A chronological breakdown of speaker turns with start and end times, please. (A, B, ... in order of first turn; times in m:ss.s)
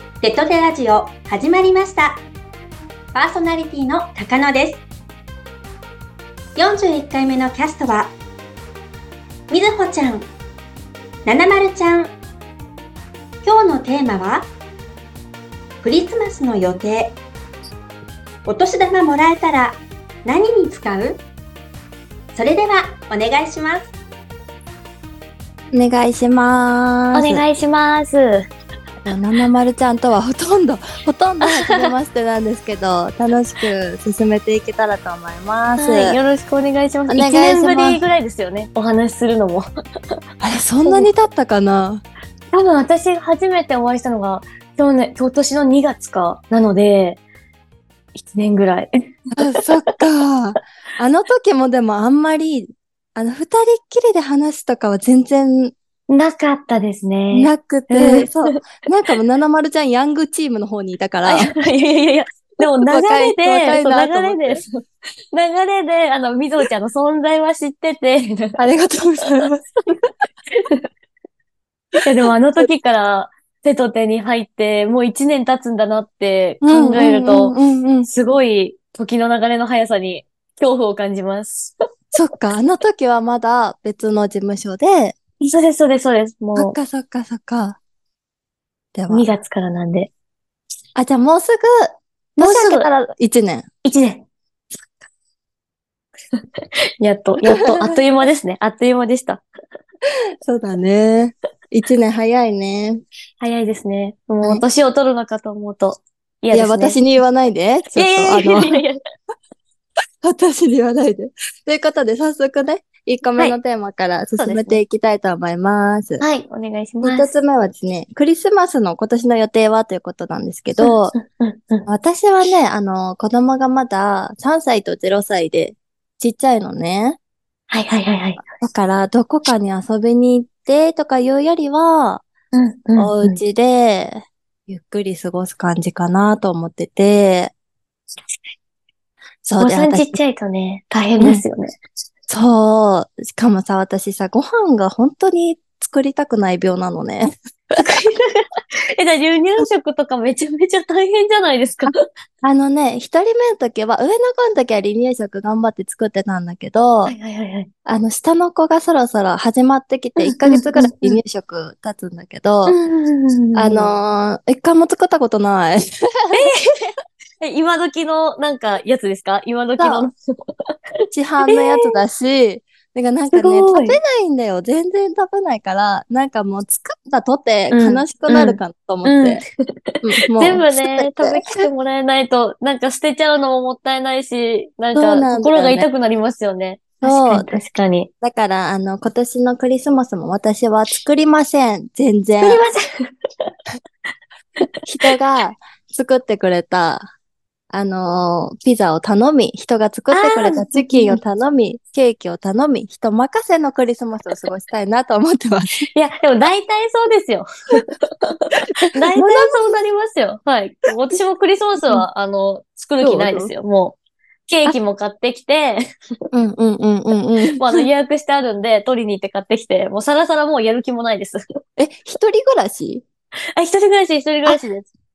0:00.2-0:02.2 A
0:03.1-0:04.8 A
0:06.6-0:08.2 A
0:09.5-0:10.3 A
0:11.3-0:12.2 A
0:13.4-0:14.5 A
0:15.8-0:17.2 A
0:18.4-0:21.2 A
0:22.3-0:23.9 A
0:25.7-0:27.4 B
0:27.1-0:28.3 C
0:29.0-0:36.2 B
0:35.8-0:39.7 C
0:37.1-0:38.0 B
0:40.4-0:42.0 B
0:42.5-0:47.2 C
0:48.2-0:49.6 C
0:49.4-0:55.7 B
0:56.1-0:58.4 C
0:57.3-1:01.5 B
1:01.2-1:04.7 C
1:02.7-1:04.6 B
1:05.3-1:08.6 C
1:08.6-1:09.7 B
1:10.6-1:10.8 C
1:12.0-1:21.7 C
1:16.6-1:18.1 B
1:22.1-1:25.2 B
1:25.4-1:26.8 C
1:26.6-1:27.8 B
1:29.0-1:29.3 B
1:29.1-1:30.1 C
1:31.0-1:33.7 B
1:32.4-1:32.9 C
1:33.8-1:34.2 C
1:37.0-1:39.4 C
1:37.5-1:38.0 B
1:40.4-1:43.0 B
1:43.4-1:47.0 C
1:46.5-1:48.8 B
1:48.0-1:49.0 C
1:50.2-1:56.2 B
1:54.4-1:54.8 C
1:56.2-1:57.3 C
1:57.0-2:01.1 B
2:00.8-2:01.8 C
2:01.9-2:07.2 B
2:07.7-2:08.4 C
2:08.6-2:12.2 B
2:12.5-2:13.4 C
2:13.0-2:17.5 B
2:19.4-2:20.2 B
2:19.6-2:21.7 C
2:22.3-2:27.9 B
2:27.8-2:32.0 C
2:32.4-2:37.2 B
2:37.1-2:37.7 C
2:37.9-2:42.8 B
2:40.2-2:41.2 C
2:42.7-2:43.9 C
2:43.6-2:46.5 B
2:46.4-2:50.8 C
2:49.8-2:50.1 B
2:51.1-2:59.4 B
2:51.5-2:51.9 C
2:53.3-2:54.0 C
2:57.7-3:08.1 C
3:00.0-3:01.7 B
3:05.0-3:05.9 B
3:07.0-3:07.6 B
3:08.2-3:12.6 B
3:12.4-3:12.8 C
3:14.6-3:15.1 C
3:14.8-3:17.1 B
3:17.7-3:25.8 B
3:20.1-3:21.2 C
3:25.9-3:34.0 C
3:29.1-3:29.8 B
3:33.0-3:33.5 B
3:34.5-3:35.8 C
3:36.3-3:37.9 B
3:37.6-3:41.4 C
3:41.8-3:43.0 B
3:43.6-3:44.9 C